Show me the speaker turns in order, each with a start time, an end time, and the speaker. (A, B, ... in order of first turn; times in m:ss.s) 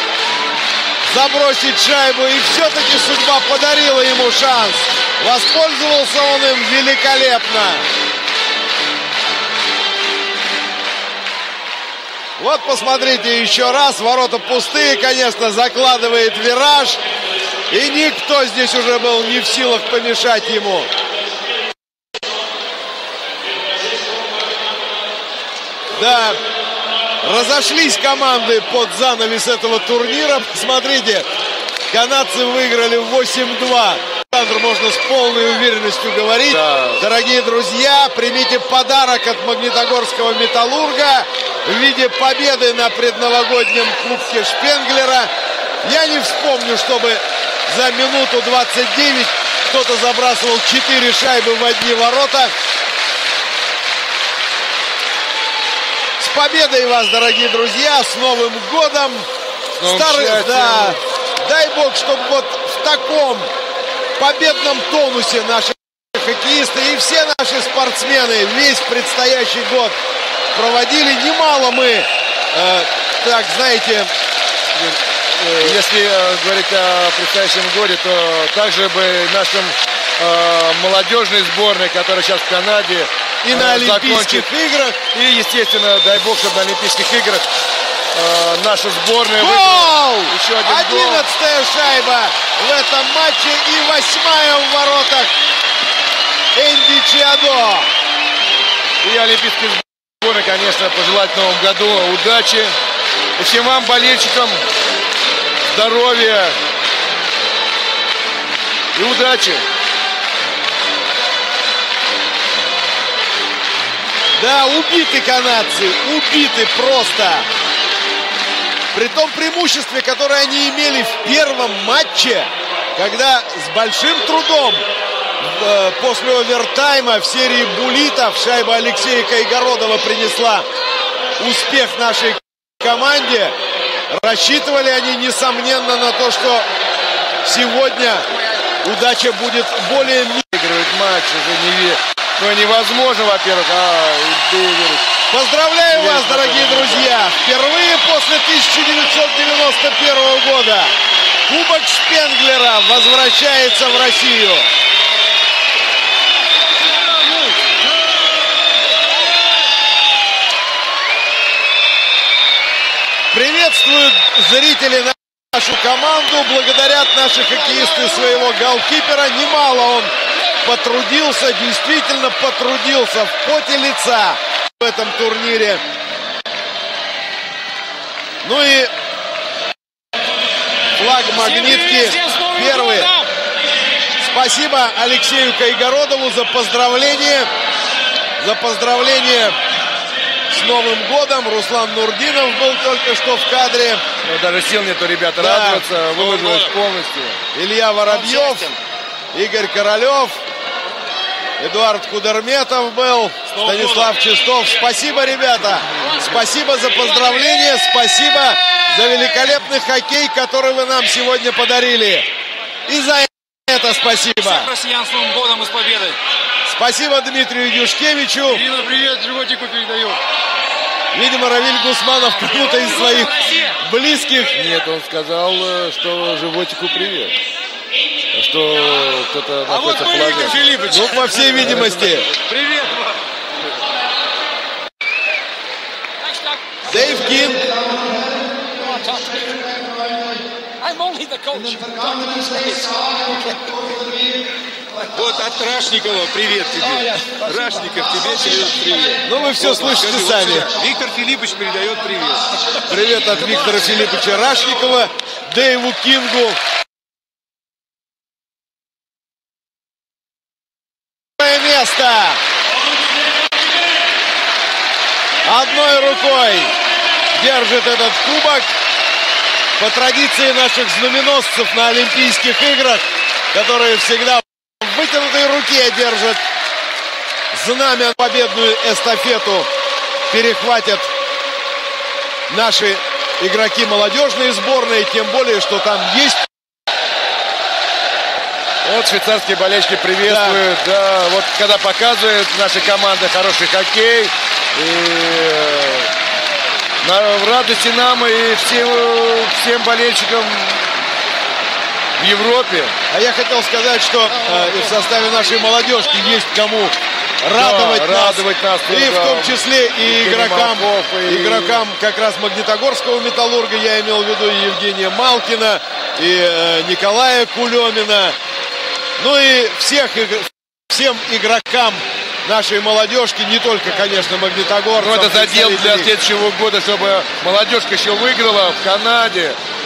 0:01.1-0:07.8 A
0:12.4-0:17.0 A
0:17.7-0:20.9 A
0:25.9-0:26.4 A
0:27.2-0:31.3 A
0:31.9-0:45.3 A
0:36.5-0:37.0 B
0:45.8-0:52.5 A
0:56.2-0:59.3 A
0:59.8-1:01.0 B
0:59.8-1:03.5 A
1:04.2-1:10.0 A
1:10.5-1:14.1 A
1:15.4-1:15.8 A
1:15.6-1:24.5 B
1:23.4-1:25.0 A
1:25.1-1:27.5 B
1:28.1-1:31.3 B
1:29.4-1:35.3 A
1:36.5-1:37.9 A
1:39.0-1:42.8 B
1:43.4-1:44.6 B
1:45.6-1:46.6 B
1:48.9-1:49.6 B
1:54.4-1:57.5 A
1:58.9-2:04.8 A
2:05.4-2:10.7 A
2:11.4-2:13.5 A
2:14.1-2:16.7 A
2:17.4-2:18.2 A
2:18.8-2:20.5 A
2:20.5-2:25.1 B
2:25.3-2:30.9 A
2:25.9-2:27.1 B
2:31.5-2:34.7 A
2:43.3-2:50.1 A
2:50.6-2:55.8 A
2:58.4-2:58.9 A
3:01.0-3:03.2 A
3:04.2-3:07.5 A
3:08.4-3:09.6 A
3:10.5-3:14.0 A
3:14.2-3:17.4 B
3:15.4-3:16.4 A
3:17.5-3:18.8 A
3:19.3-3:20.4 A
3:21.6-3:32.3 A
3:32.9-3:34.8 A
3:34.8-3:36.2 C
3:36.7-3:38.7 A
3:38.5-3:40.2 B
3:41.1-3:44.6 A
3:44.5-3:47.4 B
3:48.3-3:53.0 B
3:50.7-3:52.3 A
3:52.6-3:53.0 C
3:56.9-3:57.7 A
3:59.0-3:59.4 C
4:00.8-4:03.0 C
4:05.2-4:12.4 B
4:05.2-4:09.2 C
4:09.2-4:10.8 A
4:10.5-4:12.4 C
4:12.9-4:16.6 A
4:21.4-4:22.4 A
4:25.4-4:26.7 A
4:27.4-4:28.7 A
4:29.8-4:36.4 A
4:37.5-4:39.7 A
4:40.3-4:41.1 A
4:42.5-4:46.5 A
4:48.8-4:56.1 B
4:50.2-4:50.6 A
4:57.0-5:00.9 B
5:02.2-5:03.0 B
5:03.1-5:18.4 A
5:07.5-5:11.8 B
5:19.2-5:26.1 A
5:25.0-5:29.6 B